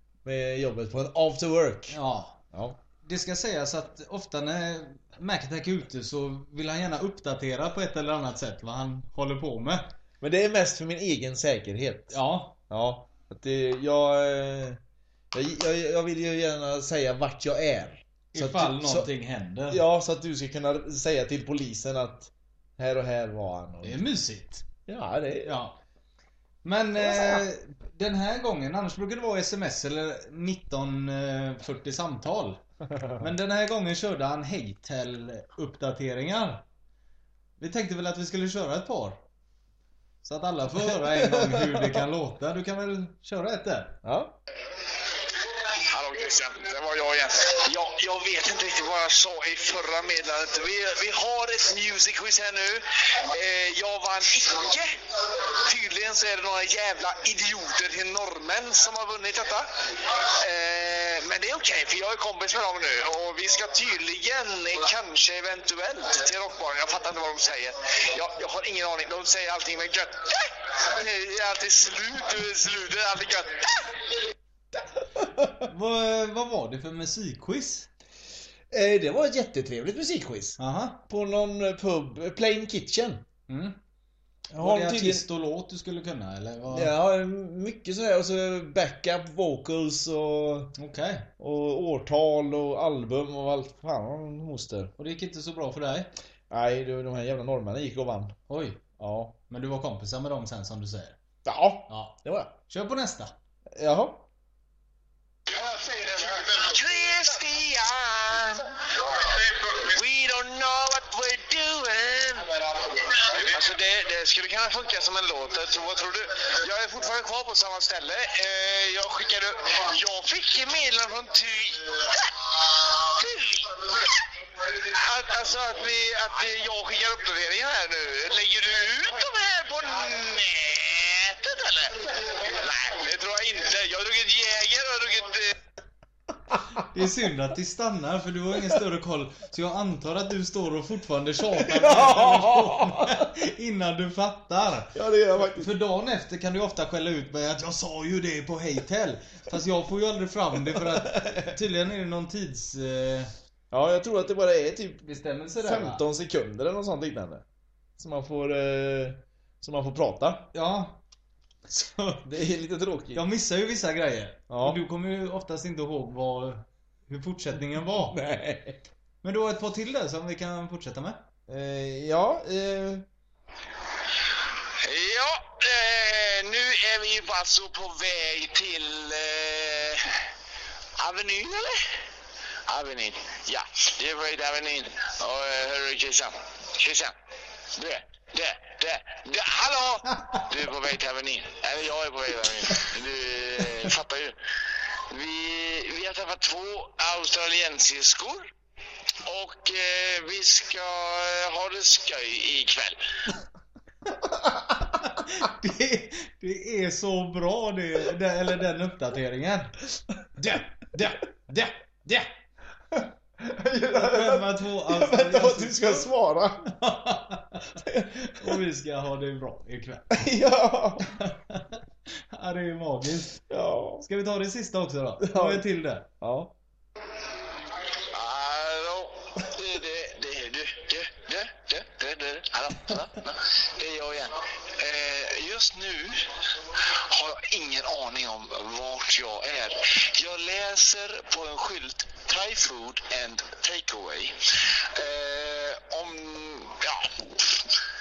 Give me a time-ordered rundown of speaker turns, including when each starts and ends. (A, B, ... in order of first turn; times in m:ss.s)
0:00.2-0:02.0 A
0:01.9-0:02.4 B
0:02.5-0:02.8 A
0:03.0-0:09.9 B
0:10.2-0:12.2 A
0:12.1-0:12.6 B
0:12.7-0:14.8 A
0:15.3-0:19.1 A
0:18.3-0:19.8 B
0:19.7-0:24.0 A
0:23.8-0:24.6 B
0:24.9-0:25.5 A
0:25.4-0:25.8 B
0:26.6-0:32.6 B
0:27.0-0:27.4 A
0:33.2-0:36.6 B
0:37.6-0:39.2 B
0:40.2-0:44.0 B
0:40.8-0:42.0 A
0:44.0-0:44.4 A
0:45.7-1:14.0 C
1:15.2-1:15.5 A
1:15.6-1:17.9 B
1:18.7-1:23.2 A
1:20.6-1:21.0 B
1:23.5-1:23.8 B
1:24.5-1:25.3 A
1:24.6-1:26.9 B
1:26.7-1:30.7 A
1:30.8-1:31.3 B
1:31.4-1:34.9 A
1:35.0-1:36.1 B
1:36.5-1:38.3 A
1:38.5-1:38.8 B
1:39.0-1:39.3 A
1:39.5-1:41.2 B
1:41.4-1:42.5 A
1:41.9-1:42.2 B
1:42.7-1:43.3 B
1:43.7-1:44.2 A
1:45.6-2:15.5 C
2:16.9-2:33.3 B
2:21.5-2:23.3 A
2:24.9-2:25.7 A
2:30.7-2:31.5 A
2:33.7-2:35.0 A
2:35.0-2:36.0 B
2:35.6-2:37.4 A
2:38.0-2:40.5 A
2:40.5-2:41.0 B
2:41.7-2:42.2 B
2:42.2-2:43.2 A
2:43.1-2:48.2 B
2:44.5-2:44.8 A
2:47.7-2:48.8 A
2:49.2-2:51.2 B
2:51.5-2:53.0 A
2:54.8-3:00.1 C
3:01.0-3:01.9 C
3:02.7-3:07.1 C
3:07.7-3:14.4 C
3:15.1-3:18.5 C
3:19.2-3:23.0 C
3:25.0-3:29.7 B
3:30.4-3:32.3 B
3:33.4-3:36.7 A
3:33.9-3:36.1 B
3:36.6-3:40.2 B
3:37.8-3:38.6 A
3:40.1-3:41.0 A
3:41.0-3:41.8 B
3:42.3-3:43.4 B
3:43.5-3:44.0 A
3:44.0-3:46.1 B
3:45.2-3:45.6 A
3:46.2-3:46.5 A
3:48.1-4:07.7 C